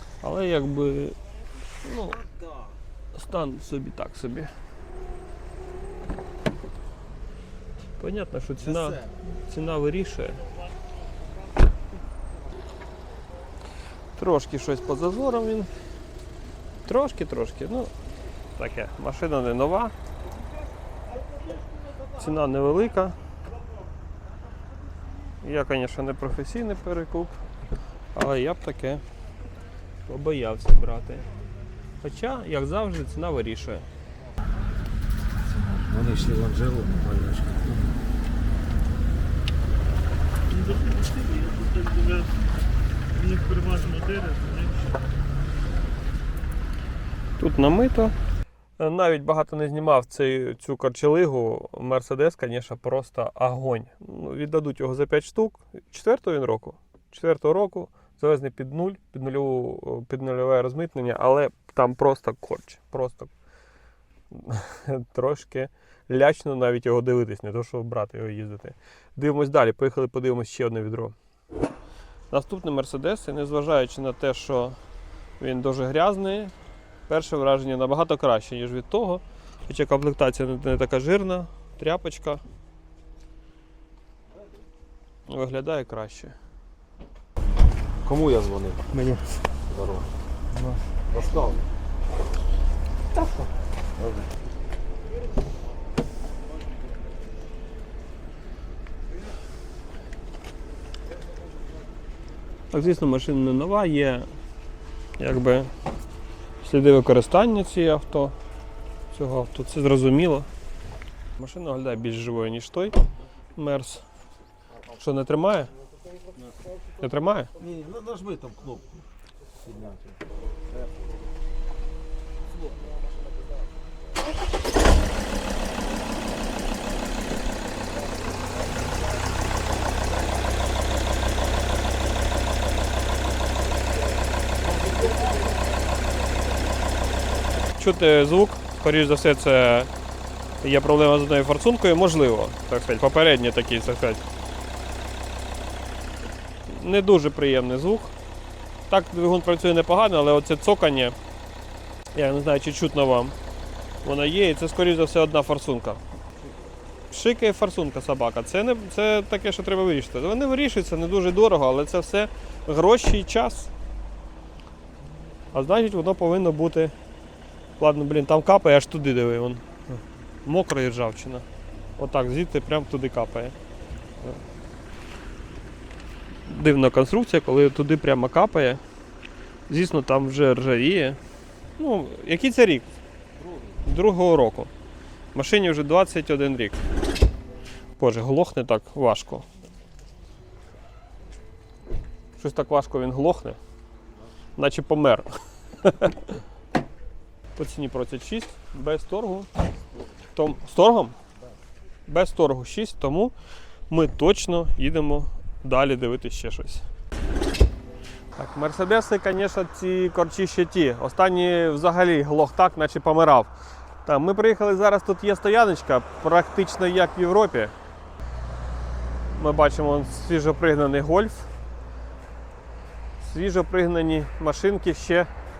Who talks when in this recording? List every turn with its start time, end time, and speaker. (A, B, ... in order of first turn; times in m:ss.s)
0:00.2-0:01.2 A
0:01.8-0:02.2 A
0:02.1-0:02.7 B
0:03.1-0:04.5 A
0:08.0-0:10.4 A
0:08.6-0:09.4 B
0:14.2-0:15.7 A
0:16.8-0:17.9 A
0:18.6-0:19.9 A
0:22.2-0:23.2 A
0:25.4-0:27.4 A
0:28.2-0:29.0 A
0:30.1-0:31.3 A
0:32.0-0:33.9 A
0:35.4-0:38.0 B
0:40.5-0:42.3 A
0:43.1-0:45.0 A
0:47.4-0:48.1 A
0:48.8-1:03.3 A
1:04.3-1:11.2 A
1:12.3-1:14.8 A
1:15.4-1:16.5 A
1:17.1-1:22.4 A
1:25.3-1:26.4 A
1:28.0-1:28.9 B
1:28.9-1:29.4 A
1:29.7-1:30.1 B
1:30.5-1:30.8 A
1:31.1-1:31.6 B
1:33.1-1:34.3 B
1:42.7-1:44.3 A
1:45.2-1:45.7 A
1:46.6-1:48.4 A
1:49.1-1:50.5 A
1:51.4-1:53.0 A
1:53.6-1:54.0 A
1:55.0-1:55.7 A
1:57.0-1:57.5 A
1:57.6-1:59.1 B
1:59.6-2:00.2 B
2:02.5-2:02.8 B
2:14.6-2:15.4 B
2:17.8-2:19.9 A
2:20.6-2:24.2 A
2:26.7-2:28.1 A
2:28.9-2:31.2 A
2:32.1-2:33.3 A
2:34.0-2:36.0 A
2:37.1-2:43.7 A
2:45.5-2:46.9 A
2:47.8-2:51.5 A
2:52.0-2:53.6 A
2:56.5-2:58.8 A
2:59.7-3:01.2 A
3:01.8-3:02.9 A
3:03.4-3:03.8 B
3:03.8-3:04.7 A
3:05.3-3:06.8 A
3:08.0-3:09.5 A
3:12.4-3:13.6 A
3:14.6-3:15.3 A
3:15.8-3:16.4 A
3:17.6-3:19.5 A
3:20.4-3:21.2 A
3:22.1-3:23.3 A
3:23.9-3:26.8 A
3:28.4-3:33.5 A
3:34.0-3:37.7 A
3:39.3-3:41.5 A
3:43.2-3:45.3 A